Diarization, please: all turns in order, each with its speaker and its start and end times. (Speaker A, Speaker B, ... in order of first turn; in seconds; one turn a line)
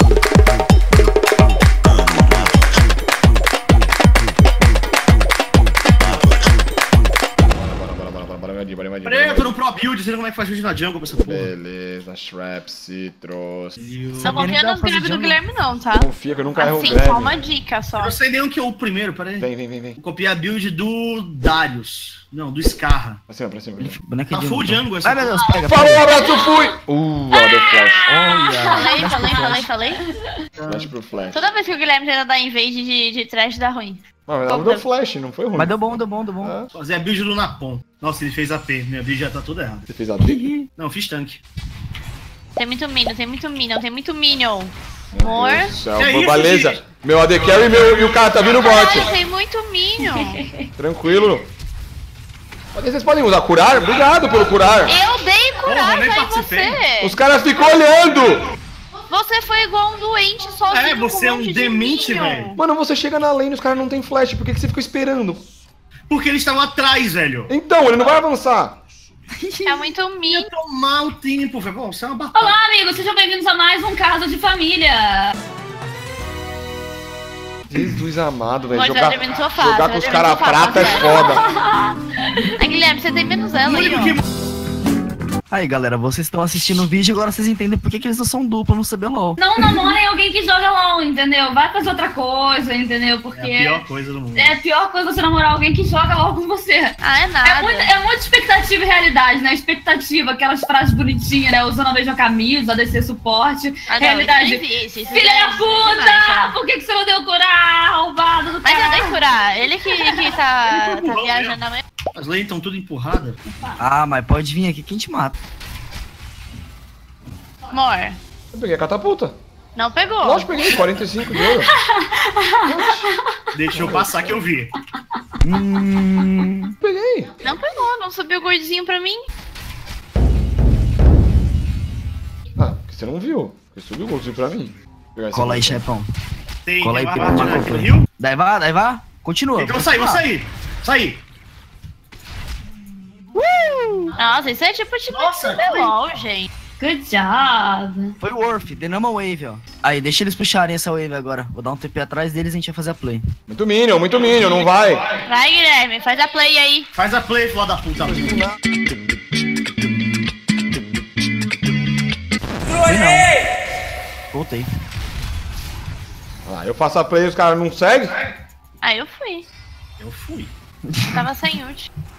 Speaker A: 7.5-9.6
Speaker B: 9.0-11.5
Speaker A: 11.2-13.8
Speaker B: 13.8-14.5
Speaker C: 14.2-15.4
Speaker D: 14.2-18.1
Speaker A: 15.9-17.4
Speaker B: 18.0-23.2
Speaker A: 19.4-20.0
Speaker A: 23.3-24.0
Speaker C: 23.8-26.1
Speaker B: 24.3-25.4
Speaker E: 25.4-26.8
Speaker A: 25.6-28.0
Speaker E: 27.3-30.3
Speaker C: 28.1-29.7
Speaker D: 28.7-30.0
Speaker B: 30.6-30.9
Speaker A: 30.7-31.4
Speaker D: 31.3-34.8
Speaker A: 34.3-36.7
Speaker C: 35.6-36.6
Speaker B: 36.7-39.9
Speaker A: 39.9-40.5
Speaker C: 40.2-40.7
Speaker B: 40.8-41.4
Speaker D: 42.6-45.7
Speaker A: 45.1-49.1
Speaker B: 46.0-46.8
Speaker D: 48.6-50.4
Speaker E: 50.0-50.7
Speaker A: 50.8-51.5
Speaker A: 52.7-55.0
Speaker D: 54.9-57.2
Speaker B: 55.6-56.8
Speaker A: 57.0-58.4
Speaker D: 59.1-62.6
Speaker B: 60.7-62.5
Speaker A: 62.5-65.5
Speaker B: 66.1-67.5
Speaker A: 67.5-68.8
Speaker C: 69.4-69.9
Speaker D: 69.7-70.5
Speaker B: 70.3-72.6
Speaker E: 72.3-75.3
Speaker A: 77.7-81.5
Speaker D: 78.7-81.2
Speaker E: 80.7-82.7
Speaker D: 82.6-84.2
Speaker B: 83.7-84.2
Speaker C: 85.5-89.4
Speaker E: 89.4-93.8
Speaker B: 93.3-94.6
Speaker E: 94.4-109.2
Speaker D: 97.0-97.9
Speaker D: 103.9-106.5
Speaker D: 108.6-111.8
Speaker E: 109.8-110.4
Speaker B: 110.7-111.6
Speaker B: 112.2-113.4
Speaker E: 113.5-113.8
Speaker C: 113.8-115.4
Speaker D: 117.7-118.2
Speaker A: 118.5-119.4
Speaker D: 119.8-120.6
Speaker A: 120.2-121.7
Speaker E: 121.4-123.2
Speaker A: 122.7-123.1
Speaker B: 123.5-124.8
Speaker A: 123.7-124.4
Speaker C: 125.4-126.8
Speaker A: 126.8-127.4
Speaker D: 127.4-129.2
Speaker A: 132.6-135.8
Speaker C: 135.3-136.1
Speaker B: 136.7-138.1
Speaker C: 136.8-140.2
Speaker B: 139.6-141.2
Speaker C: 143.4-144.1
Speaker D: 144.2-146.5
Speaker B: 145.1-146.0
Speaker E: 146.8-148.2
Speaker C: 148.2-153.2
Speaker A: 153.5-155.1
Speaker D: 155.2-156.9
Speaker B: 156.9-158.4
Speaker A: 158.0-158.6
Speaker C: 162.8-163.3
Speaker C: 164.3-164.7
Speaker A: 166.4-168.2
Speaker D: 168.8-169.5
Speaker B: 170.0-170.5
Speaker D: 171.1-171.9